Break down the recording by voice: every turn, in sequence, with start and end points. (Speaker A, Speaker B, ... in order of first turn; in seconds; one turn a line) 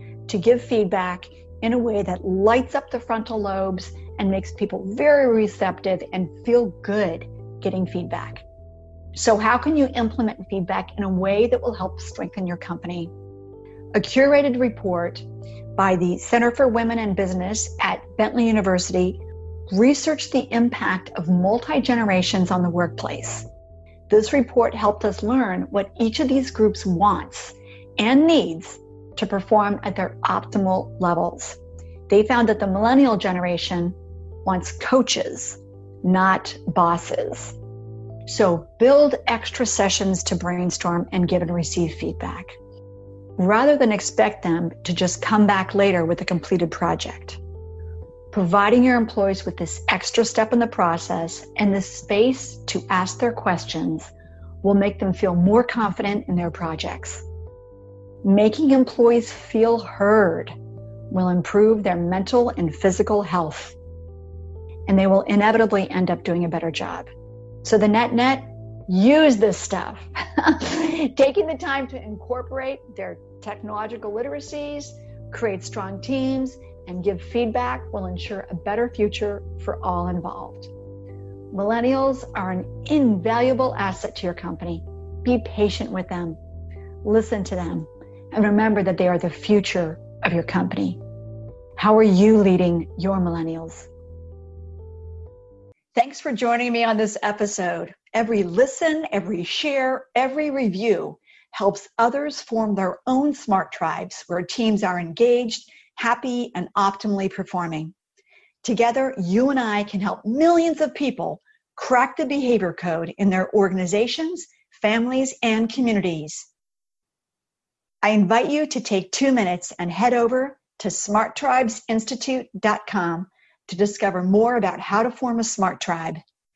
Speaker A: 0.3-8.4
Speaker A: 9.1-13.1
Speaker A: 13.9-23.5
Speaker A: 24.1-31.6
Speaker A: 32.1-37.5
Speaker A: 38.2-42.5
Speaker A: 43.4-47.4
Speaker A: 48.3-54.1
Speaker A: 54.6-57.2
Speaker A: 58.2-60.5
Speaker A: 61.1-63.8
Speaker A: 64.9-67.1
Speaker A: 67.6-80.7
Speaker A: 81.5-86.4
Speaker A: 87.0-91.0
Speaker A: 91.8-93.9
Speaker A: 95.9-107.9
Speaker A: 108.6-116.5
Speaker A: 118.0-126.2